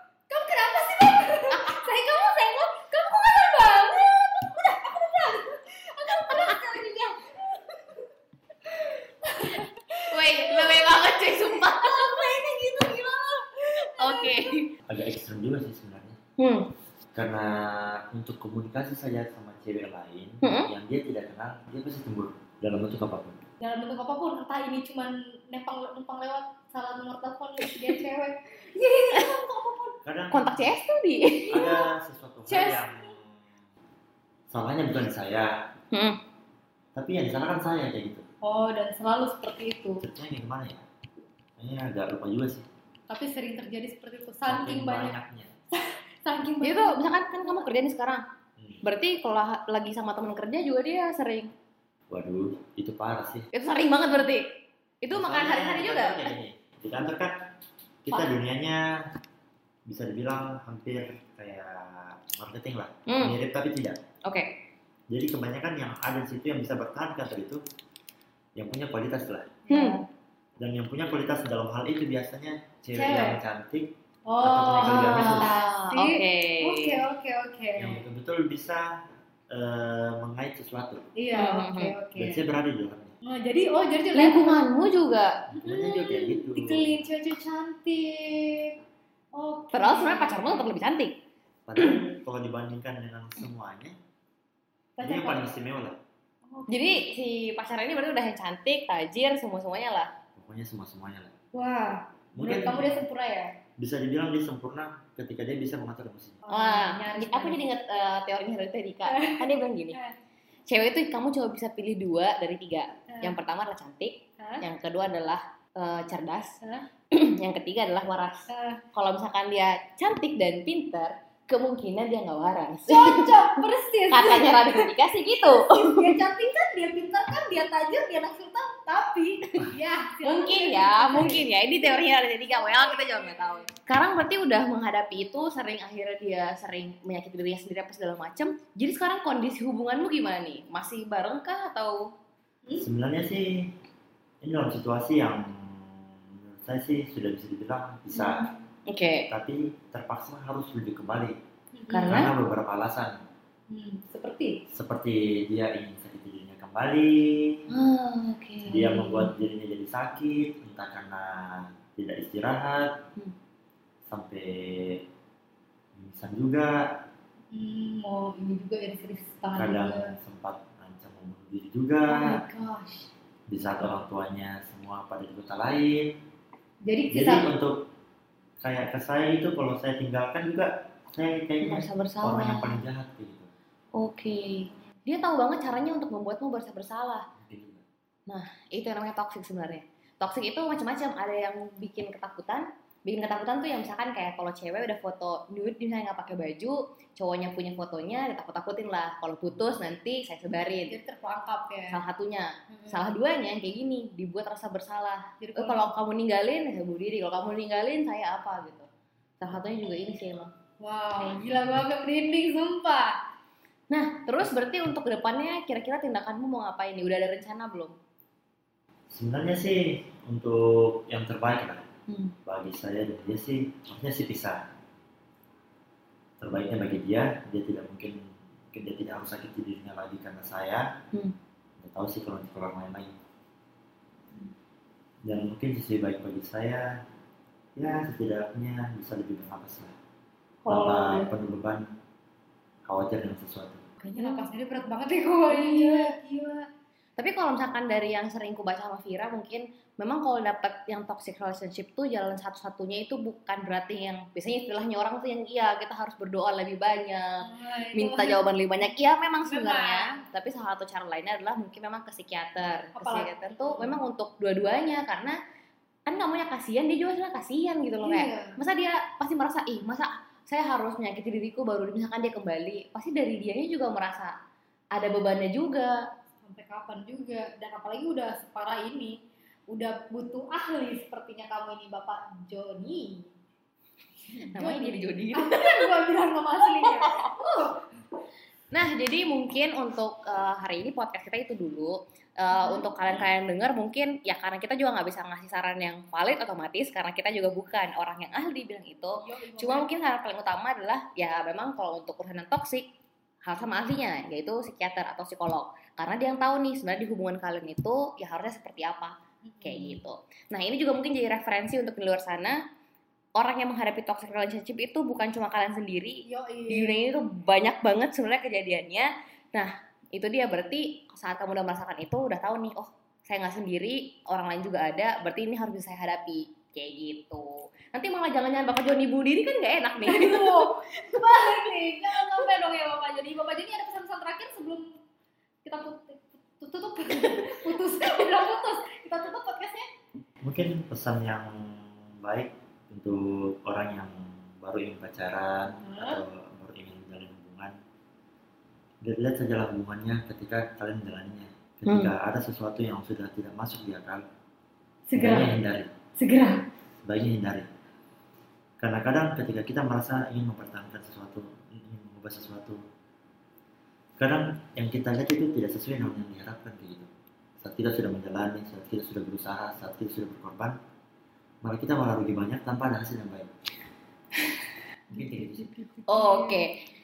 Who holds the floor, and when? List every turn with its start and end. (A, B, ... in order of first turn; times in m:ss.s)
0:00.3-0:07.8 A
0:08.7-0:14.5 A
0:10.1-0:12.3 B
0:14.0-0:14.7 B
0:14.9-0:16.2 C
0:16.4-0:16.7 B
0:17.1-0:23.4 C
0:20.4-0:20.7 B
0:23.6-0:30.0 A
0:30.0-0:30.7 C
0:30.3-0:31.5 B
0:31.4-0:31.9 A
0:31.5-0:33.4 C
0:32.5-0:33.1 A
0:34.5-0:35.5 C
0:35.9-0:36.2 B
0:36.9-0:38.2 C
0:38.4-0:40.0 A
0:40.0-0:40.8 C
0:41.6-0:42.6 C
0:43.1-0:45.2 A
0:44.5-0:45.5 C
0:45.7-0:47.0 A
0:46.6-0:48.2 B
0:48.6-0:48.8 C
0:48.8-0:51.5 B
0:52.1-0:53.5 C
0:53.5-0:54.5 B
0:55.0-0:56.3 B
0:55.1-0:57.5 C
0:58.0-0:58.9 C
0:59.9-1:04.0 C
1:03.1-1:03.4 B
1:04.2-1:04.5 B
1:05.1-1:07.6 C
1:08.6-1:09.6 C
1:09.7-1:10.0 A
1:09.7-1:10.0 B
1:10.6-1:15.5 C
1:12.9-1:13.4 A
1:14.3-1:18.0 A
1:15.2-1:17.0 B
1:17.8-1:21.0 C
1:21.2-1:22.4 A
1:21.3-1:21.9 B
1:22.2-1:23.1 C
1:23.2-1:24.6 A
1:24.1-1:25.4 B
1:25.5-1:27.0 C
1:25.5-1:28.8 A
1:29.3-1:30.7 A
1:29.7-1:31.1 B
1:31.7-1:34.0 C
1:35.0-1:35.4 A
1:35.0-1:36.0 C
1:36.5-1:37.1 A
1:36.7-1:40.1 B
1:40.3-1:41.3 C
1:41.5-1:43.6 A
1:42.3-1:42.9 C
1:43.8-1:46.4 C
1:46.4-1:47.6 A
1:46.5-1:50.0 B
1:49.0-1:50.1 A
1:50.7-1:56.6 B
1:54.4-1:54.6 A
1:56.6-1:56.9 A
1:57.1-2:03.4 B
1:58.5-1:58.8 A
2:02.9-2:04.9 A
2:04.1-2:06.2 B
2:05.7-2:13.7 A
2:10.2-2:22.1 B
2:22.8-2:23.7 C
2:24.4-2:28.5 C
2:28.1-2:29.3 B
2:29.3-2:31.4 C
2:31.7-2:32.2 A
2:31.9-2:32.3 B
2:32.1-2:33.2 C
2:33.7-2:34.6 A
2:34.7-2:37.6 C
2:37.7-2:39.3 B
2:38.6-2:42.9 C
2:44.1-2:45.0 C
2:46.0-2:47.0 C
2:47.5-2:50.2 A
2:49.5-2:52.4 C
2:52.1-2:53.1 A
2:53.5-2:56.1 C
2:56.8-2:57.5 A
2:57.1-2:57.8 C
2:58.6-3:03.5 C
3:01.6-3:02.8 B
3:03.9-3:07.3 B
3:07.4-3:07.8 C
3:08.3-3:21.0 B
3:20.8-3:22.0 A
3:21.9-3:28.9 B
3:22.7-3:23.1 A
3:25.4-3:25.9 A
3:29.4-3:30.5 B
3:30.8-3:33.1 A
3:33.9-3:37.9 B
3:39.1-3:41.8 C
3:42.1-3:42.3 B
3:42.4-3:44.7 C
3:46.4-3:48.2 C
3:48.7-3:50.8 C
3:51.8-3:53.1 C
3:55.2-3:56.9 C
3:57.8-3:59.9 C
4:00.6-4:01.3 A
4:00.7-4:01.8 C
4:02.9-4:03.8 C
4:04.0-4:04.5 B
4:04.0-4:06.7 A
4:05.5-4:06.1 B
4:07.2-4:25.4 B
4:17.4-4:18.4 A
4:19.4-4:20.2 A
4:22.9-4:24.0 A
4:26.0-4:34.3 B
4:28.0-4:28.6 A
4:34.9-4:36.0 B
4:36.4-4:39.2 A
4:39.7-4:43.3 A
4:44.3-4:47.8 A
4:44.5-4:45.9 B
4:46.8-4:47.3 B
4:48.7-5:02.8 B
4:52.5-4:52.9 A
4:59.2-4:59.9 A
5:03.4-5:12.6 B
5:09.4-5:10.0 A
5:13.4-5:30.6 B
5:16.3-5:17.2 A
5:30.0-5:35.0 A
5:35.6-5:39.9 A
5:40.4-5:47.7 C
5:45.8-5:46.2 A
5:49.0-5:54.2 C
5:51.8-5:52.1 B
5:55.1-5:55.6 A
5:55.2-5:55.9 C
5:56.2-5:56.6 A
5:57.0-5:57.7 C
5:58.8-6:02.8 C
6:04.2-6:07.1 C
6:07.6-6:10.8 C
6:11.6-6:13.5 C
6:15.1-6:15.7 C
6:15.1-6:16.6 A
6:16.1-6:16.7 B